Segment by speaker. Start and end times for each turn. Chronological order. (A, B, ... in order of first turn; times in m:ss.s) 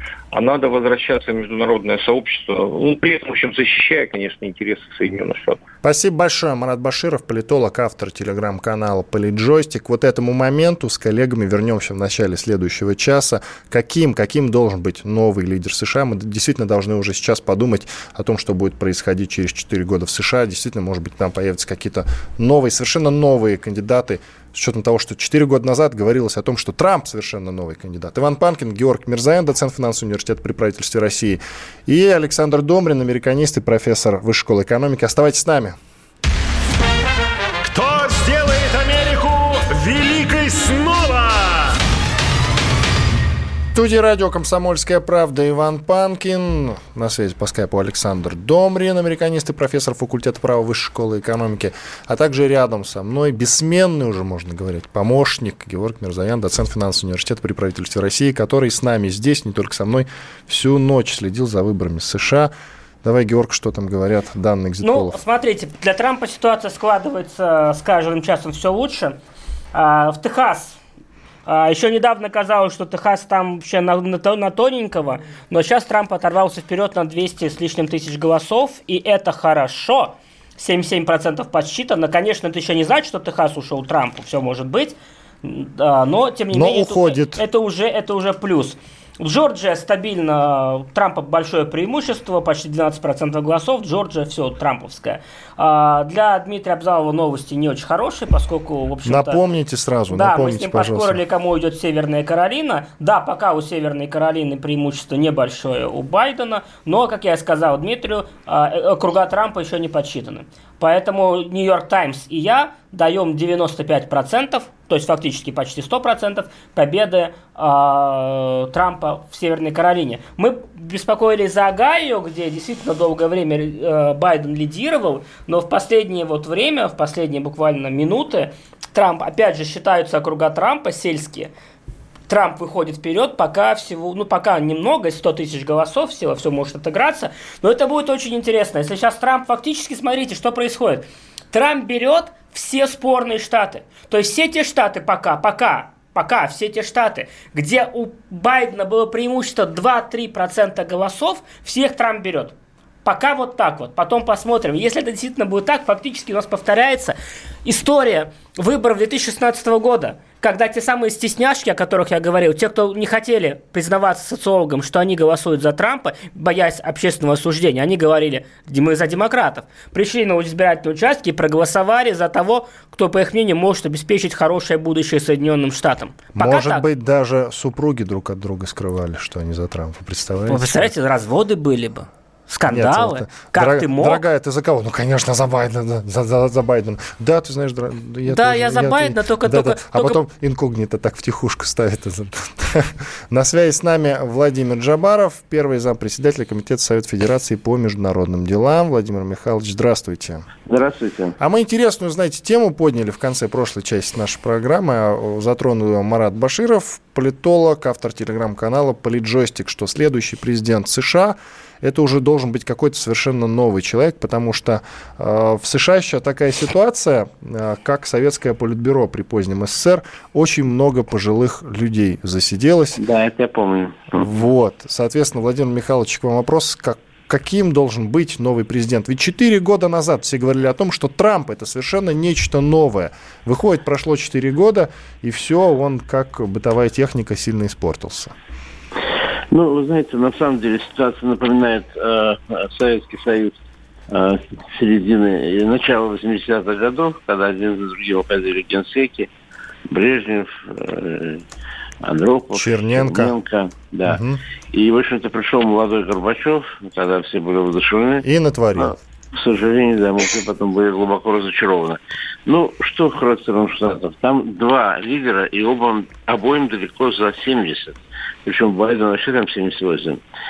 0:00.3-0:05.6 A
0:05.8-0:35.8 B
0:37.7-0:41.8 B
0:43.7-1:02.5 B
1:03.0-1:05.2 B
1:04.8-1:09.2 C
1:09.7-1:10.8 C
1:11.4-1:39.4 C
1:26.5-1:27.4 B
1:39.0-1:41.2 B
1:40.1-2:11.5 C
2:12.3-2:32.5 C
2:33.0-2:56.8 C
2:56.3-3:00.9 B
3:00.5-3:04.2 C
3:02.7-3:20.5 B
3:08.2-3:10.2 C
3:20.6-3:21.4 D
3:21.4-3:43.0 B
3:43.0-3:44.2 D
3:44.2-3:58.3 B
3:59.5-4:03.6 D
4:04.1-4:09.3 D
4:09.9-4:11.4 D
4:12.0-4:14.2 D
4:12.5-4:13.4 B
4:14.1-4:14.4 B
4:14.7-4:18.2 D
4:18.2-4:18.9 B
4:18.8-4:30.2 D